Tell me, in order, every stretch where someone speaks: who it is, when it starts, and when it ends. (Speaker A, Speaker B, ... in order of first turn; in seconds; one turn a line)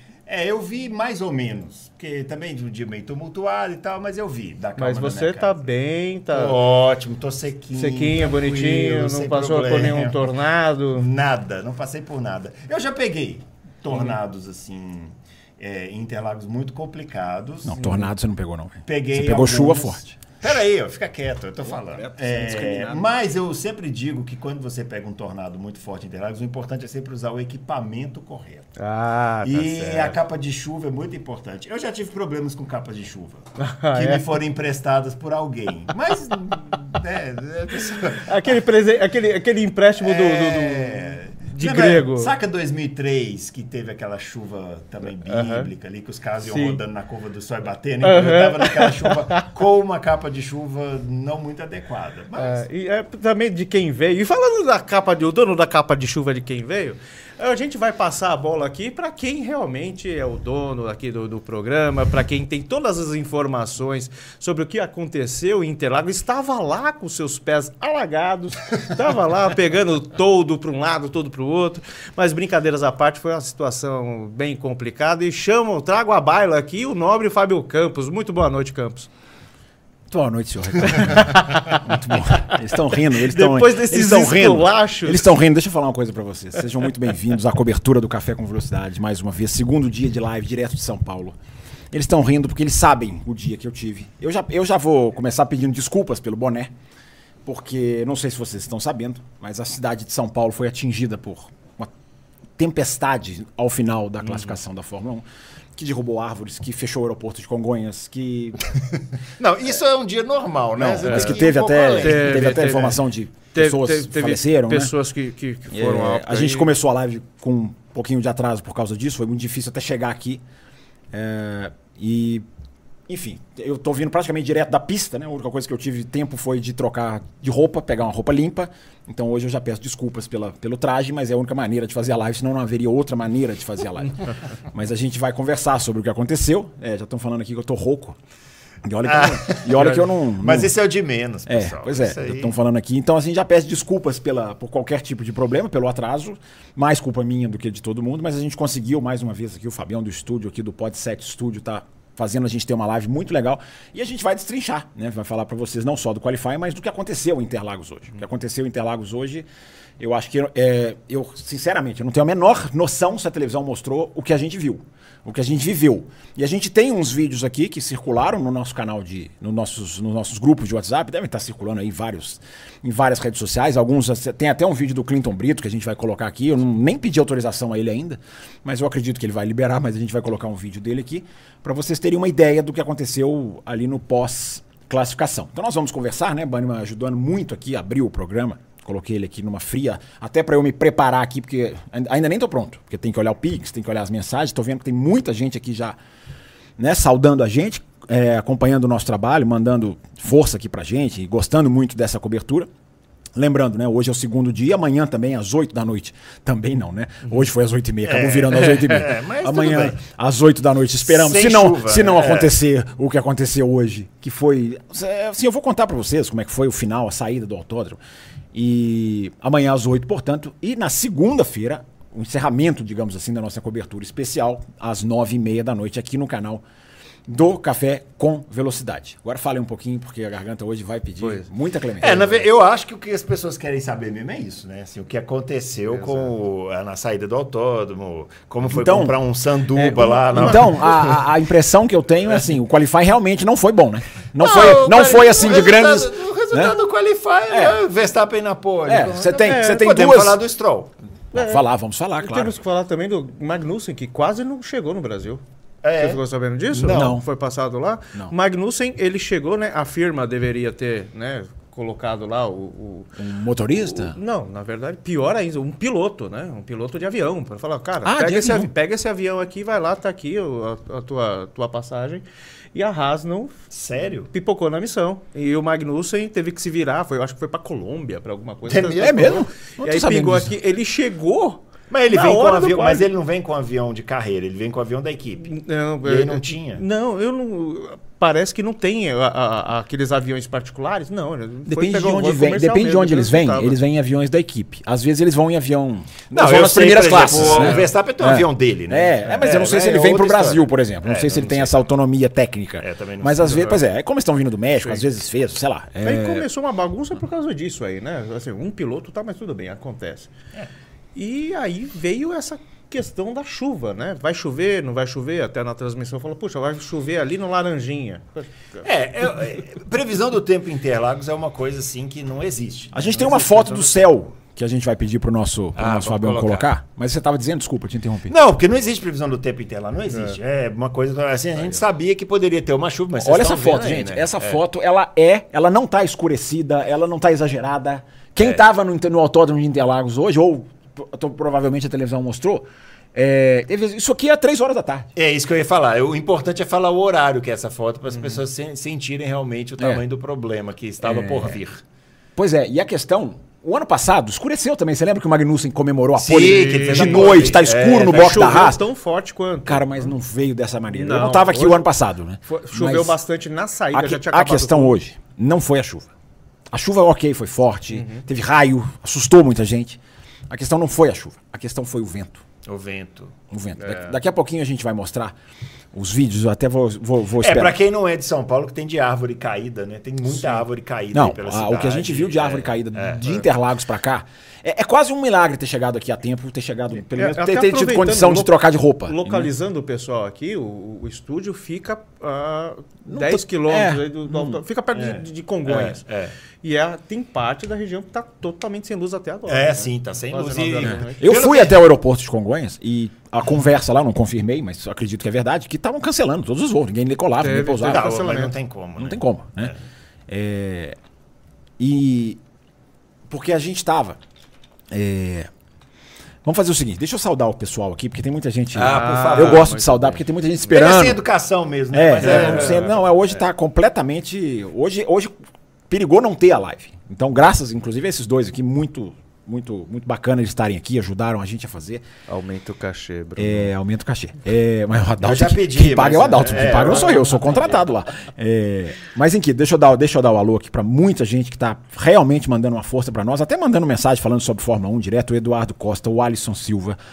Speaker A: 0.3-5.6
Speaker B: 4.8-6.6
Speaker A: 6.3-10.2
Speaker B: 7.7-11.1
Speaker A: 10.9-18.0
Speaker B: 13.9-14.2
Speaker C: 17.6-20.1
Speaker A: 18.9-28.7
Speaker C: 21.6-23.1
Speaker B: 28.8-30.1
Speaker A: 29.4-38.6
Speaker B: 33.6-34.2
Speaker B: 38.1-42.3
Speaker A: 40.0-52.6
Speaker B: 45.2-45.7
Speaker B: 46.4-46.8
Speaker B: 48.0-49.2
Speaker B: 52.3-79.1
Speaker C: 80.1-91.3
Speaker B: 81.0-85.3
Speaker C: 91.9-96.7
Speaker C: 97.4-101.9
Speaker C: 102.6-105.2
Speaker B: 104.2-104.5
Speaker C: 105.8-108.8
Speaker A: 109.4-112.8
Speaker C: 110.8-114.9
Speaker B: 111.0-111.4
Speaker B: 112.0-113.0
Speaker B: 113.5-116.7
Speaker C: 115.7-120.4
Speaker C: 121.1-122.5
Speaker C: 123.1-138.2
Speaker C: 138.8-140.7
Speaker A: 139.0-142.5
Speaker C: 141.5-159.5
Speaker C: 160.0-196.0
Speaker C: 196.8-202.7
Speaker C: 203.3-218.0
Speaker A: 208.0-210.0
Speaker A: 211.0-212.5
Speaker C: 218.5-226.6
Speaker C: 227.3-232.5
Speaker B: 231.2-231.5
Speaker A: 232.0-241.2
Speaker B: 235.9-236.3
Speaker C: 238.6-239.2
Speaker C: 239.8-246.8
Speaker B: 239.9-241.1
Speaker A: 244.4-250.9
Speaker C: 247.5-247.8
Speaker C: 248.8-250.4
Speaker B: 249.2-249.9
Speaker B: 251.3-251.6
Speaker C: 251.3-252.5
Speaker B: 252.2-255.4
Speaker A: 255.8-256.2
Speaker B: 256.0-263.1
Speaker A: 256.8-257.2
Speaker C: 256.8-257.2
Speaker C: 263.1-264.1
Speaker B: 263.7-273.6
Speaker C: 268.0-268.7
Speaker A: 273.7-274.3
Speaker B: 274.3-283.1
Speaker A: 278.7-279.4
Speaker C: 279.0-280.5
Speaker A: 281.9-286.8
Speaker B: 285.4-293.8
Speaker C: 291.6-306.5
Speaker A: 296.3-301.8
Speaker B: 297.2-297.9
Speaker A: 302.8-303.8
Speaker B: 306.0-310.3
Speaker B: 311.1-318.9
Speaker A: 318.8-323.4
Speaker C: 322.9-328.3
Speaker B: 323.1-323.9
Speaker A: 325.8-326.7
Speaker A: 328.3-334.6
Speaker B: 330.1-330.4
Speaker C: 333.2-345.1
Speaker A: 345.1-351.8
Speaker C: 351.0-351.6
Speaker C: 352.4-358.8
Speaker A: 356.1-358.8
Speaker B: 356.4-360.1
Speaker C: 359.6-363.2
Speaker B: 360.9-361.9
Speaker B: 362.4-365.0
Speaker C: 363.9-366.1
Speaker C: 366.7-372.4
Speaker B: 367.9-368.2
Speaker A: 372.6-374.1
Speaker C: 373.5-375.4
Speaker C: 375.9-377.7
Speaker A: 377.4-383.3
Speaker C: 381.1-389.5
Speaker B: 387.1-396.0
Speaker C: 393.1-394.6
Speaker A: 394.9-396.3
Speaker B: 396.6-401.2
Speaker A: 399.5-401.9
Speaker C: 400.8-408.2
Speaker B: 407.4-408.5
Speaker A: 407.8-409.8
Speaker C: 409.0-409.7
Speaker C: 410.3-411.0
Speaker C: 411.8-412.4
Speaker C: 413.3-414.2
Speaker C: 414.9-415.5
Speaker C: 416.4-421.2
Speaker A: 418.7-419.7
Speaker B: 418.8-420.2
Speaker A: 420.6-422.9
Speaker C: 421.9-425.3
Speaker B: 422.1-423.1
Speaker C: 425.9-432.0
Speaker B: 432.3-433.7
Speaker C: 433.4-447.0
Speaker A: 435.2-437.6
Speaker B: 436.8-437.7